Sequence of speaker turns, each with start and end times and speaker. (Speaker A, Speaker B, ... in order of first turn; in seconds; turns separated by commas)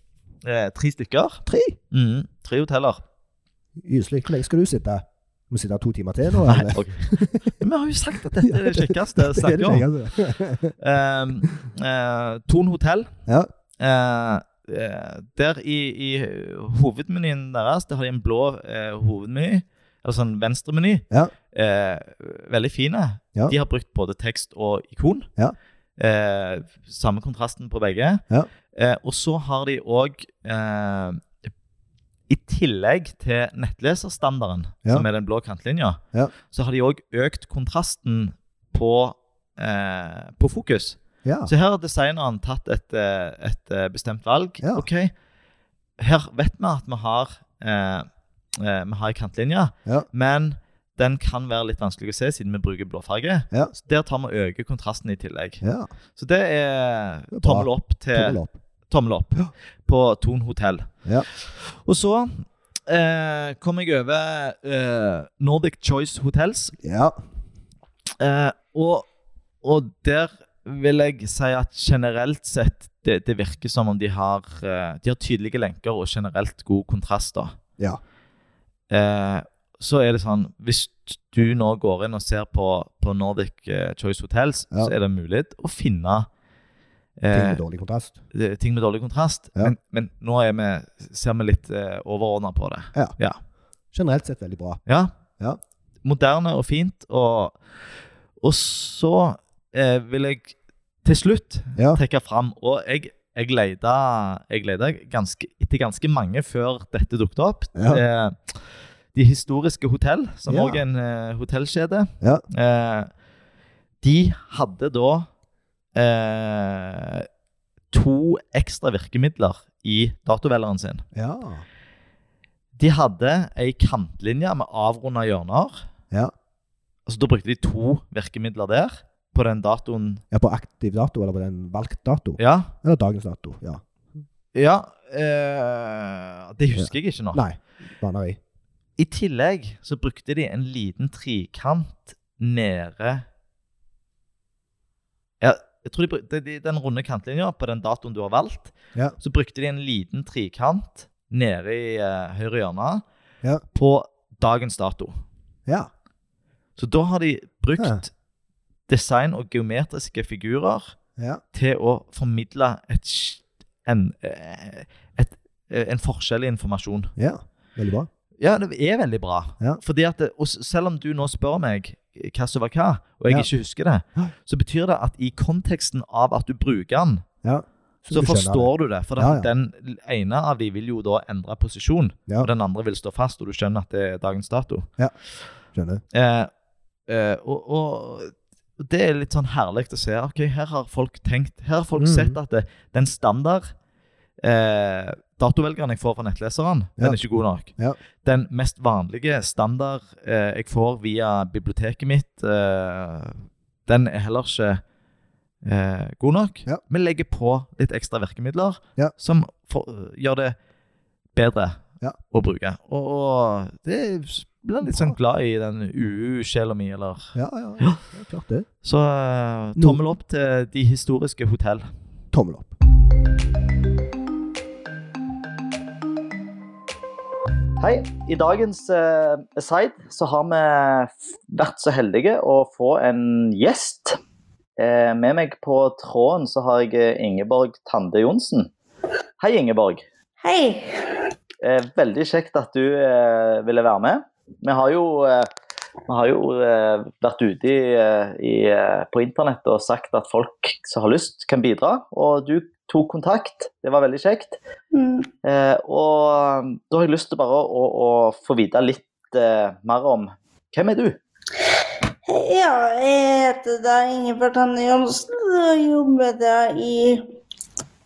Speaker A: 0.4-3.0, Speaker B: 1.5-1.8, Speaker B: 3.8-7.5, Speaker A: 6.5-9.9, Speaker B: 8.4-10.8, Speaker A: 10.8-13.1, Speaker A: 13.8-25.3, Speaker A: 26.0-31.2, Speaker A: 32.3-45.1, Speaker B: 41.2-41.5, Speaker B: 44.6-44.9, Speaker A: 46.0-55.6, Speaker B: 55.6-55.9, Speaker A: 56.1-66.8, Speaker B: 57.3-58.6, Speaker B: 66.8-67.2, Speaker A: 68.2-69.1, Speaker A: 69.6-77.6, Speaker A: 78.9-86.3, Speaker A: 87.2-87.6, Speaker B: 87.3-88.2, Speaker A: 88.3-93.4, Speaker B: 93.9-94.8, Speaker A: 94.9-95.1, Speaker A: 96.0-97.6, Speaker A: 98.4-108.6, Speaker B: 101.8-102.0, Speaker B: 107.8-108.0, Speaker A: 109.1-113.1, Speaker B: 110.5-110.8, Speaker A: 114.0-115.3, Speaker A: 115.9-117.3, Speaker A: 117.9-121.1, Speaker B: 121.1-121.7, Speaker A: 122.8-125.9, Speaker A: 127.1-130.2, Speaker B: 130.3-133.8, Speaker A: 132.4-132.7, Speaker A: 134.6-137.4, Speaker B: 136.8-138.4, Speaker A: 139.0-143.2, Speaker A: 145.4-153.0, Speaker A: 153.7-155.2, Speaker A: 156.8-158.1, Speaker A: 158.9-161.0, Speaker B: 161.2-161.4, Speaker A: 161.5-167.1, Speaker B: 167.2-168.1, Speaker A: 168.4-177.2, Speaker B: 177.4-179.5, Speaker A: 178.1-184.9, Speaker B: 185.7-186.0, Speaker A: 186.1-186.5, Speaker A: 187.1-193.7, Speaker B: 192.0-192.4, Speaker A: 194.4-204.8, Speaker B: 197.0-198.0, Speaker A: 205.6-210.6, Speaker A: 211.3-218.0, Speaker B: 214.8-215.2, Speaker B: 217.3-218.7, Speaker A: 218.8-221.9, Speaker B: 222.3-222.7, Speaker A: 227.8-234.2, Speaker A: 234.8-238.7, Speaker A: 239.4-240.1, Speaker C: 240.4-241.2, Speaker A: 241.6-245.5, Speaker A: 246.1-254.6, Speaker C: 254.9-255.3, Speaker A: 255.4-261.2, Speaker C: 262.3-267.2